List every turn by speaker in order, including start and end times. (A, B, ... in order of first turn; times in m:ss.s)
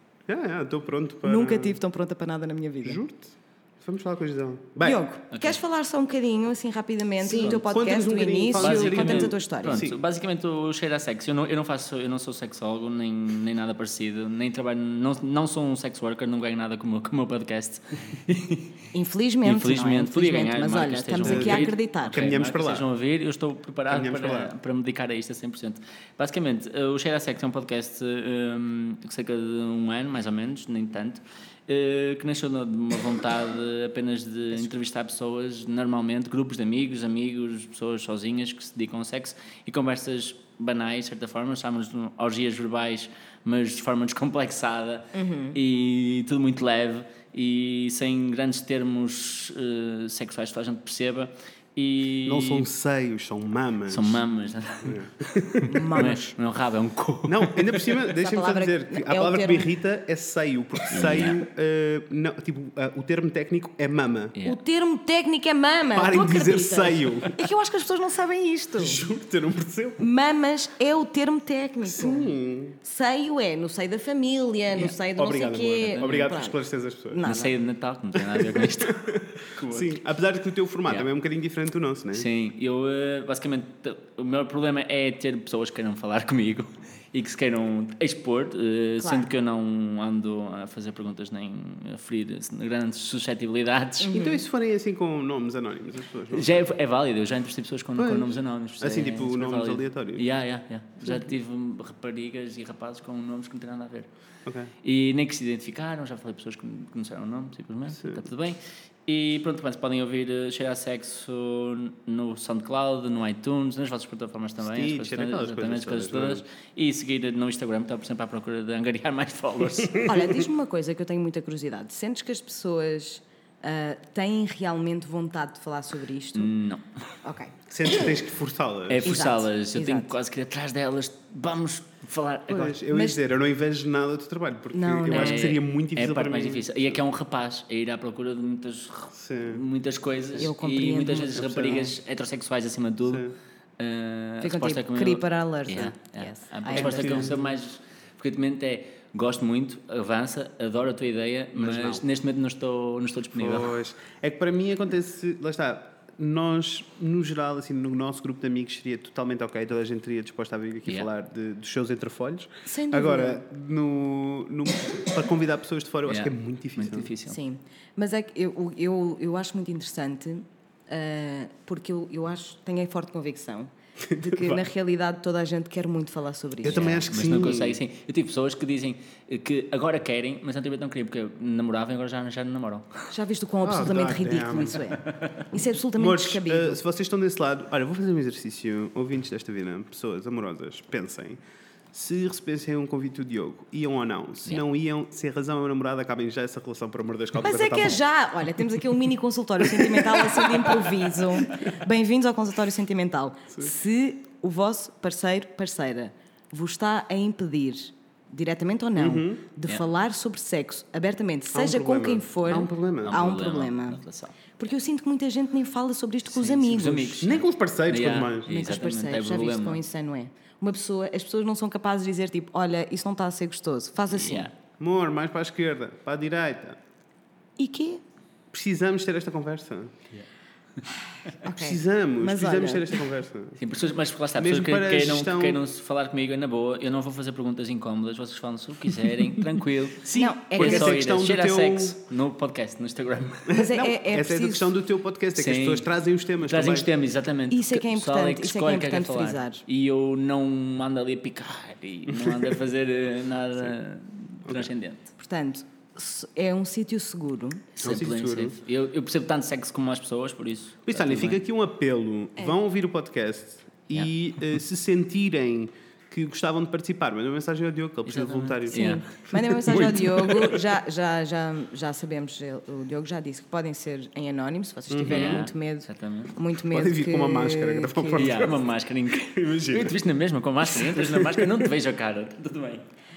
0:00.3-0:01.8 A
0:01.2-0:03.0 B
0:02.8-0:05.0 A
0:04.8-0:09.8 B
0:05.3-0:05.6 C
0:07.3-0:07.6 C
0:07.7-0:10.0 A
0:08.6-0:18.8 C
0:18.9-0:22.2 B
0:19.4-0:52.7 C
0:21.2-0:22.8 A
0:23.9-0:24.5 A
0:45.1-0:45.6 B
0:52.2-0:54.2 A
0:53.9-0:57.9 C
0:54.8-0:55.8 A
0:55.7-0:56.3 B
0:57.3-1:04.3 A
0:58.1-0:59.7 B
1:00.9-1:01.4 C
1:04.4-1:09.0 B
1:06.0-1:07.4 A
1:08.8-1:10.0 A
1:10.0-1:17.5 B
1:11.8-1:12.8 A
1:14.7-1:17.2 A
1:15.9-1:16.3 C
1:17.2-1:20.0 C
1:18.3-1:22.3 A
1:22.1-1:34.1 C
1:29.0-1:29.3 B
1:34.0-1:34.4 B
1:34.1-1:36.6 A
1:36.3-1:44.1 C
1:38.0-1:40.2 A
1:44.5-1:44.7 A
1:44.8-2:00.1 C
1:47.9-1:48.2 A
1:54.6-1:56.4 A
2:00.0-2:06.5 B
2:06.4-2:07.1 C
2:07.2-2:08.2 B
2:07.7-2:09.2 A
2:08.9-2:12.7 C
2:09.0-2:10.1 B
2:12.5-2:17.0 A
2:12.7-2:13.2 B
2:14.7-2:15.6 B
2:15.1-2:23.2 C
2:19.2-2:19.6 A
2:20.4-2:22.0 B
2:21.4-2:21.9 A
2:23.0-2:23.3 A
2:23.8-2:33.8 C
2:24.4-2:27.3 B
2:26.7-2:27.4 A
2:31.6-2:32.0 A
2:33.4-2:47.1 A
2:42.7-2:43.4 B
2:46.1-2:47.4 C
2:47.3-2:57.0 B
2:54.1-2:54.6 A
2:56.6-2:57.8 A
2:56.7-3:03.1 C
3:03.1-3:06.8 B
3:03.6-3:04.8 A
3:05.0-3:05.4 C
3:06.0-3:11.4 A
3:11.9-3:18.0 A
3:17.4-3:34.0 B
3:19.8-3:20.8 A
3:29.0-3:29.4 A
3:31.5-3:33.3 A
3:32.5-3:34.4 C
3:34.6-3:37.3 B
3:36.3-3:39.8 C
3:37.2-3:38.5 A
3:38.5-3:44.5 B
3:44.1-3:44.5 C
3:44.8-3:46.8 A
3:47.6-3:48.0 B
3:48.5-3:49.9 A
3:51.4-3:53.6 A
3:51.4-3:53.0 B
3:53.6-4:03.5 C
3:54.4-3:55.6 A
4:00.1-4:01.0 B
4:00.5-4:02.0 A
4:03.5-4:06.9 A
4:03.6-4:04.7 B
4:05.4-4:05.9 C
4:06.4-4:15.1 C
4:07.5-4:09.6 B
4:12.1-4:12.5 A
4:15.2-4:17.7 B
4:17.8-4:21.4 C
4:17.8-4:18.6 A
4:20.9-4:30.6 A
4:28.1-4:29.1 C
4:28.7-4:38.5 B
4:34.9-4:35.5 A
4:35.1-4:36.4 C
4:36.7-4:40.0 A
4:38.2-4:42.9 C
4:40.7-4:41.6 A